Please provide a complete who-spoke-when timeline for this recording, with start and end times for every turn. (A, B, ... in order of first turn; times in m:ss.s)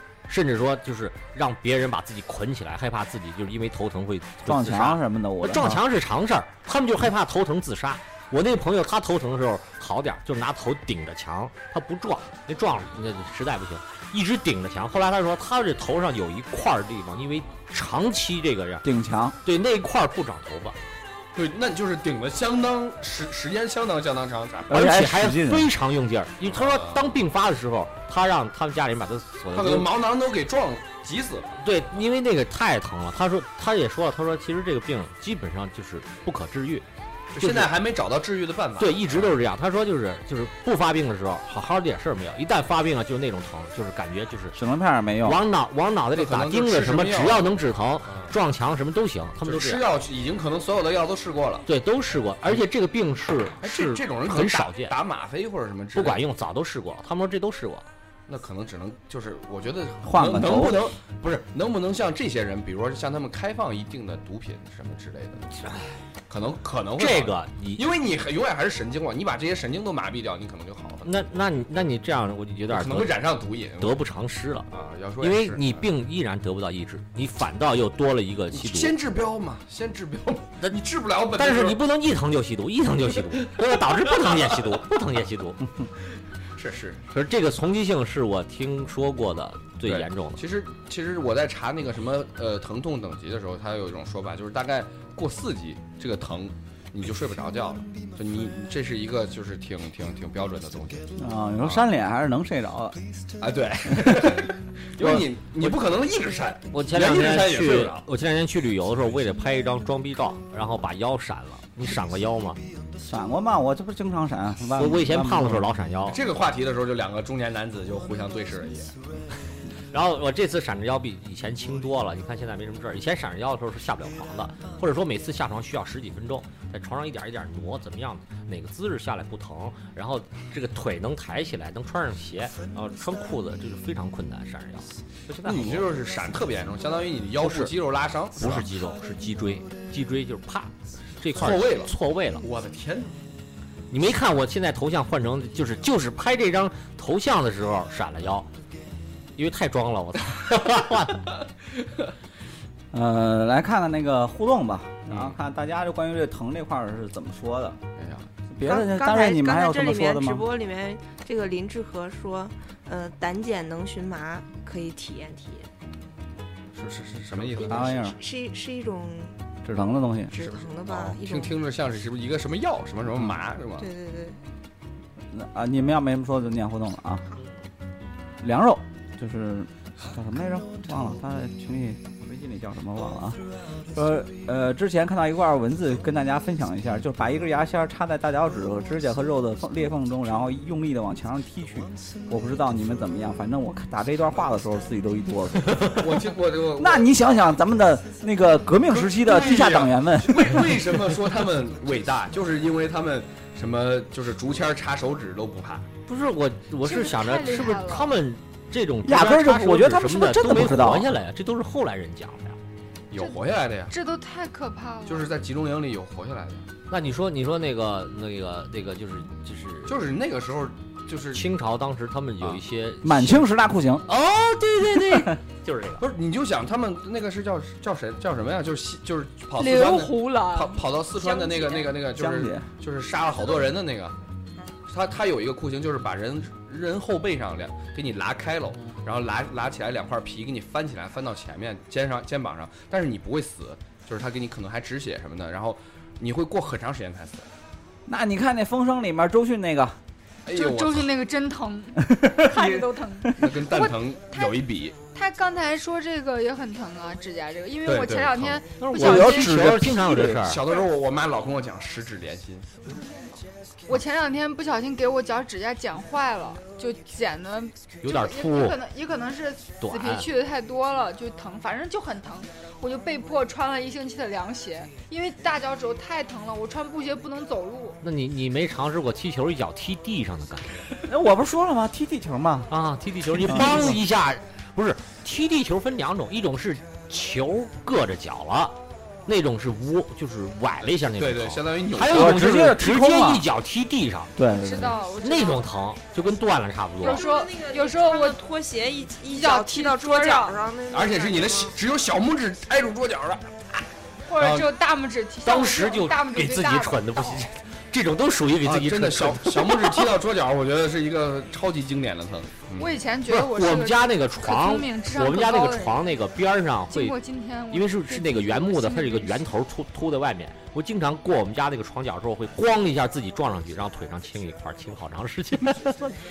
0:00.3-0:18.9 A
0:04.4-0:05.8 B
0:18.8-0:19.4 B
0:19.4-0:20.8 A
0:21.4-0:24.7 C
0:24.7-0:25.7 B
0:24.7-0:29.9 A
0:26.5-0:27.2 C
0:29.5-0:31.6 C
0:31.6-0:36.8 A
0:37.3-0:39.4 C
0:37.4-0:37.7 A
0:38.8-0:44.6 A
0:44.6-0:45.4 B
0:45.2-0:49.8 A
0:46.1-0:48.4 C
0:49.4-0:51.7 C
0:51.7-0:55.0 A
0:53.6-0:56.2 C
0:56.0-0:57.8 A
0:58.3-1:05.5 C
1:00.0-1:00.9 B
1:05.6-1:06.0 A
1:06.3-1:11.1 C
1:07.0-1:07.8 A
1:11.0-1:13.2 A
1:12.7-1:14.0 C
1:13.8-1:14.7 A
1:14.7-1:15.8 C
1:15.2-1:19.0 A
1:18.5-1:21.8 C
1:21.4-1:25.6 A
1:24.1-1:24.5 C
1:26.6-1:27.0 C
1:27.1-1:30.4 A
1:29.8-1:41.8 C
1:41.2-1:43.0 B
1:43.4-1:48.0 C
1:43.9-1:44.4 B
1:46.7-1:52.6 A
1:53.0-1:55.7 B
1:54.8-1:56.2 A
1:56.1-1:59.0 C
1:59.9-2:15.9 A
2:15.4-2:18.7 C
2:17.4-2:17.7 A
2:18.4-2:22.4 A
2:21.4-2:23.1 C
2:23.9-2:28.5 A
2:29.4-2:31.3 A
2:32.9-2:37.8 B
2:35.1-2:35.4 C
2:38.0-2:38.3 C
2:38.5-2:40.4 B
2:38.6-2:45.7 D
2:46.7-2:48.1 C
2:47.5-2:49.4 D
2:47.7-2:48.2 B
2:49.6-2:50.3 B
2:50.3-2:51.6 D
2:50.4-2:53.9 C
2:53.8-2:54.4 D
2:55.3-2:57.2 B
2:58.4-3:03.4 B
3:03.9-3:20.9 B
3:16.0-3:17.2 C
3:18.9-3:25.9 C
3:26.1-3:32.6 A
3:26.8-3:28.1 E
3:29.0-3:31.1 B
3:33.1-3:33.9 C
3:33.9-3:35.4 E
3:35.1-3:36.7 C
3:36.9-3:40.0 A
3:39.9-3:41.4 C
3:41.3-3:43.5 A
3:43.0-3:44.0 B
3:44.1-3:46.1 A
3:45.0-3:45.3 B
3:46.0-3:54.2 C
3:49.6-3:50.8 E
3:51.1-3:52.0 D
3:52.1-3:52.7 B
3:54.9-4:07.5 C
4:08.1-4:10.0 B
4:10.4-4:11.1 C
4:10.5-4:19.6 E
4:12.1-4:13.4 B
4:13.4-4:15.0 C
4:17.9-4:18.6 C
4:18.8-4:20.6 A
4:18.9-4:20.4 B
4:19.9-4:22.7 C
4:23.9-4:38.0 E
4:28.0-4:28.8 A
4:29.8-4:30.3 A
4:38.0-4:40.8 A
4:41.1-4:42.7 B
4:42.7-4:54.4 A
4:43.4-4:44.0 B
4:51.2-4:52.5 C
4:52.1-4:53.4 B
4:54.4-4:55.0 B
4:54.5-4:55.7 E
4:55.2-4:57.2 A
4:57.0-4:58.4 E
4:57.0-5:01.8 D
4:59.3-5:00.6 E
5:00.9-5:03.8 C
5:04.3-5:07.5 E
5:04.4-5:04.7 C
5:05.4-5:10.1 A
5:08.6-5:13.0 C
5:12.8-5:16.2 E
5:13.3-5:17.2 A
5:16.9-5:19.5 E
5:17.7-5:26.1 A